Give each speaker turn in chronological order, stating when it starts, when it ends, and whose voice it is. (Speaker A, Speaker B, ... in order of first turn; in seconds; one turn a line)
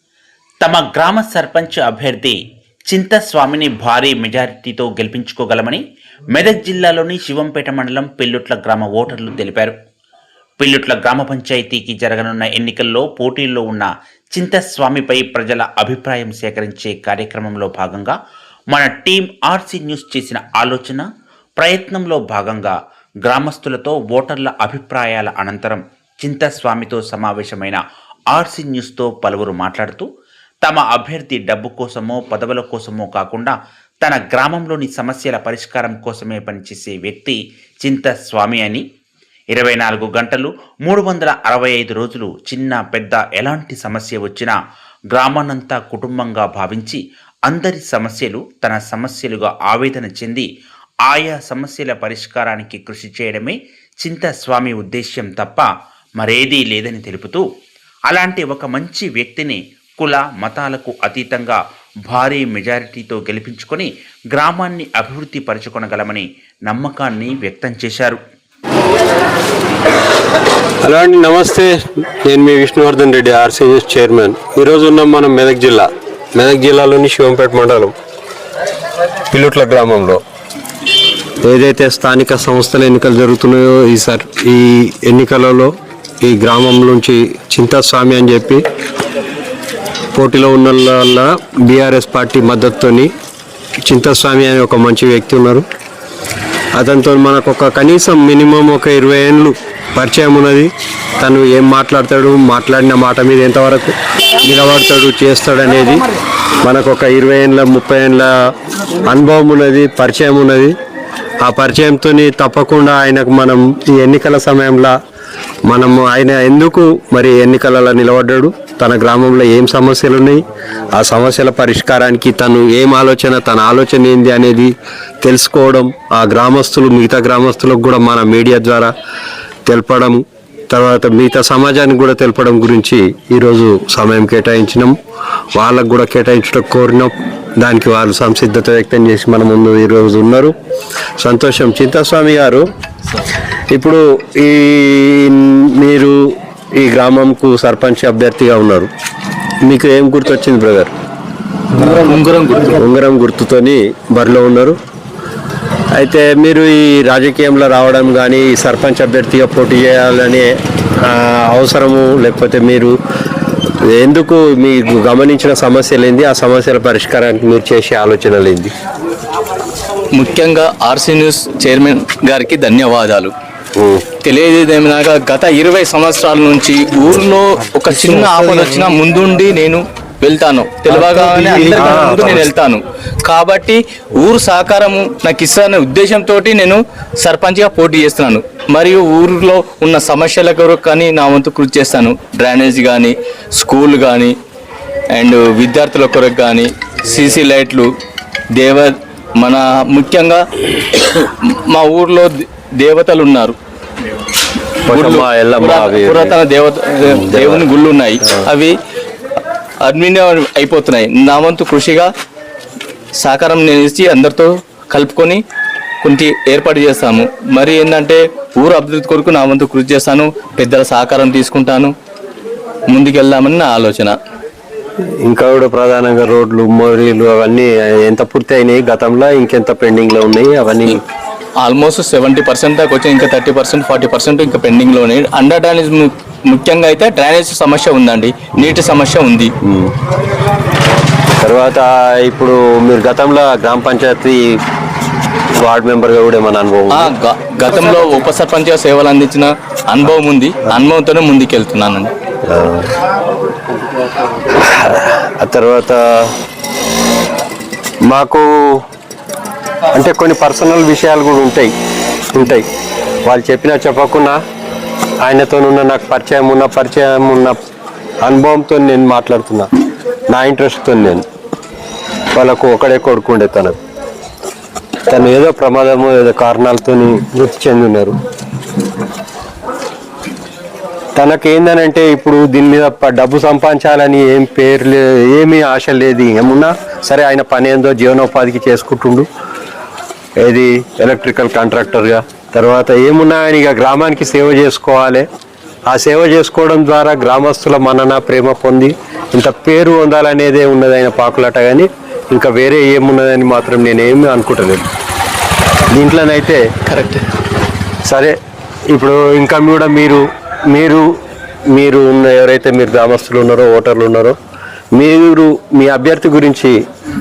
Speaker A: 0.6-9.7
Speaker A: 10.6-18.1
Speaker A: 18.7-21.0
Speaker A: 21.6-27.8
Speaker A: 28.3-30.1
Speaker A: 30.6-38.8
Speaker A: 39.5-44.5
Speaker A: 45.1-50.5
Speaker A: 51.0-55.7
Speaker A: 56.2-57.4
Speaker A: 58.1-68.2
Speaker B: 70.8-77.9
Speaker B: 79.3-80.2
Speaker B: 81.4-85.7
Speaker B: 86.2-88.6
Speaker B: 90.1-93.1
Speaker B: 93.9-95.6
Speaker B: 96.8-106.0
Speaker B: 106.6-108.3
Speaker B: 109.1-110.7
Speaker B: 111.4-114.9
Speaker B: 115.7-120.4
Speaker B: 120.9-124.7
Speaker B: 125.2-128.9
Speaker B: 129.7-134.9
Speaker B: 135.6-140.5
Speaker B: 141.2-142.7
Speaker B: 143.7-148.9
Speaker B: 149.6-150.9
Speaker C: 151.8-152.7
Speaker B: 152.7-154.8
Speaker B: 155.9-162.9
Speaker B: 163.9-168.7
Speaker C: 170.1-173.3
Speaker B: 173.8-174.0
Speaker C: 174.2-194.3
Speaker B: 180.9-182.5
Speaker C: 195.1-197.9
Speaker C: 198.6-200.4
Speaker C: 200.9-203.6
Speaker C: 204.9-208.7
Speaker B: 204.9-206.4
Speaker B: 207.1-207.7
Speaker C: 209.8-212.1
Speaker C: 213.2-215.4
Speaker C: 216.0-221.9
Speaker C: 222.9-224.1
Speaker B: 225.2-231.0
Speaker C: 231.6-239.5
Speaker B: 239.6-239.9
Speaker B: 241.4-244.6
Speaker B: 245.5-247.1
Speaker C: 246.9-252.1
Speaker B: 252.5-252.9
Speaker B: 254.5-256.3
Speaker B: 258.0-258.8
Speaker B: 259.9-261.7
Speaker B: 262.3-262.6
Speaker B: 263.2-264.4
Speaker B: 265.2-267.6
Speaker B: 268.2-269.7
Speaker B: 270.3-271.2
Speaker B: 272.3-273.8
Speaker B: 275.1-278.1
Speaker B: 281.1-289.3
Speaker B: 290.4-295.2
Speaker B: 295.9-304.9
Speaker B: 305.9-306.6
Speaker C: 306.9-307.2
Speaker B: 308.1-308.3
Speaker B: 308.9-311.1
Speaker B: 311.7-314.4
Speaker B: 314.9-316.7